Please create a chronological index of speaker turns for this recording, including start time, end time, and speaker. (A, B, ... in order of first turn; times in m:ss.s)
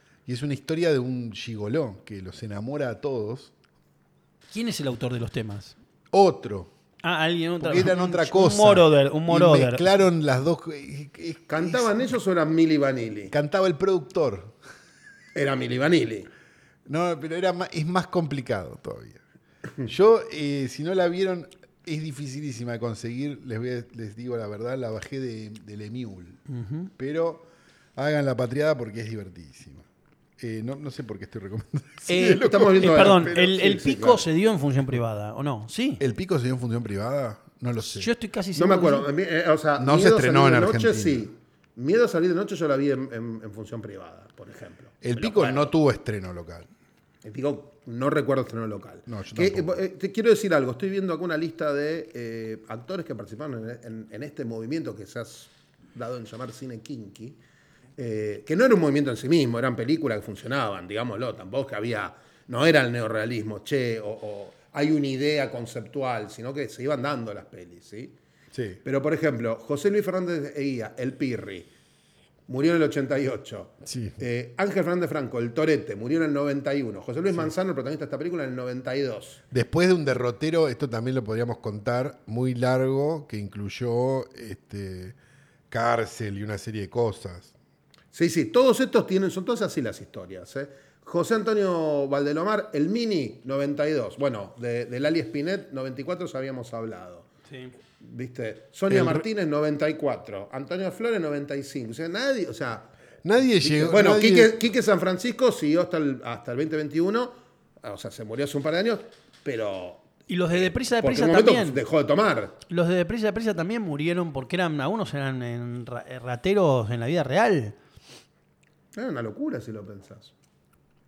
0:00.3-0:03.5 A
0:04.5-0:05.8 B
0:06.1-0:06.7 A
0:07.0-0:09.8 B
0:07.6-0:12.0 A
0:11.5-0:13.3 C
0:13.3-0:14.6 A
0:15.4-0:16.3 C
0:16.9-0:19.2 A
0:19.8-0:26.4 A
0:26.5-0:26.9 B
0:27.0-0:29.8 A
0:30.4-0:33.6 A
0:32.1-0:34.2 C
0:32.5-0:36.0 B
0:36.0-0:38.1 A
0:37.8-0:39.1 B
0:38.6-0:45.7 C
0:39.8-0:41.3 A
0:45.0-0:46.7 A
0:47.2-0:57.4 C
0:49.1-0:49.8 A
0:58.0-1:08.2 C
1:08.5-1:08.8 A
1:08.8-1:11.7 C
1:12.5-1:19.4 C
1:13.8-1:14.2 A
1:19.5-1:25.2 A
1:25.7-1:27.5 A
1:28.1-1:37.3 C
1:38.0-1:42.9 C
1:38.9-1:39.3 A
1:43.2-1:44.6 A
1:43.6-1:52.6 C
1:50.3-1:51.8 B
1:52.7-1:57.8 B
1:59.0-2:00.3 C